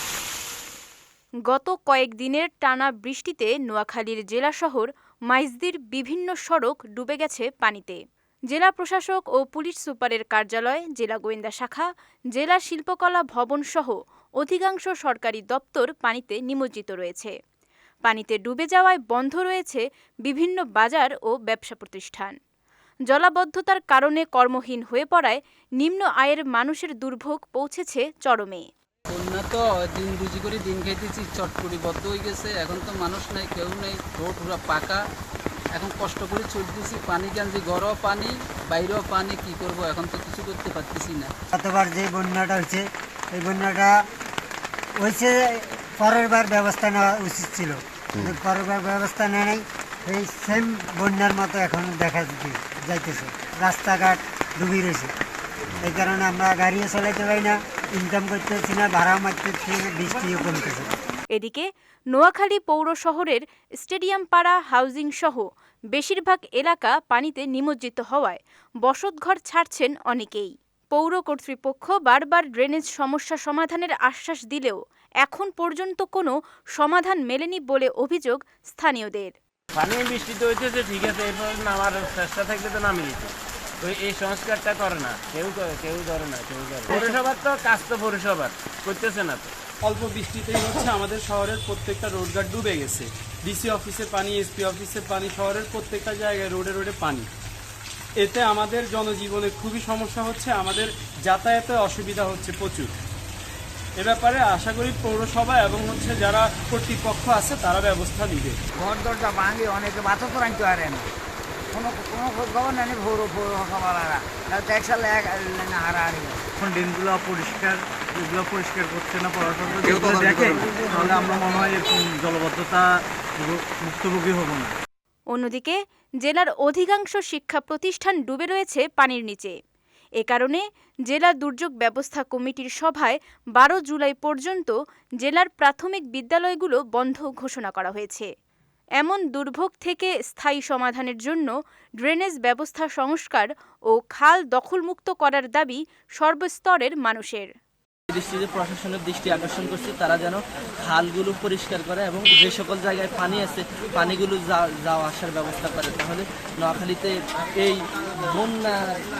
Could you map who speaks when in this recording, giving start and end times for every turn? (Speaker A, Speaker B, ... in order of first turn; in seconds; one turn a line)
Speaker A: 1.5-17.3
Speaker A: 18.0-22.4
Speaker A: 23.1-28.7
Speaker B: 29.1-35.0
Speaker B: 35.7-41.3
Speaker C: 41.5-44.0
Speaker C: 45.0-55.1
Speaker C: 55.8-60.9
Speaker A: 61.3-79.3
Speaker D: 79.8-83.3
Speaker D: 83.8-89.5
Speaker E: 89.8-97.3
Speaker E: 98.2-102.9
Speaker E: 104.0-108.6
Speaker F: 108.8-111.1
Speaker F: 111.7-116.5
Speaker G: 116.8-117.7
Speaker G: 118.3-119.3
Speaker F: 119.4-121.2
Speaker G: 119.8-122.8
Speaker G: 123.9-124.6
Speaker A: 125.3-129.5
Speaker A: 130.2-138.3
Speaker A: 139.0-147.5
Speaker H: 148.1-159.0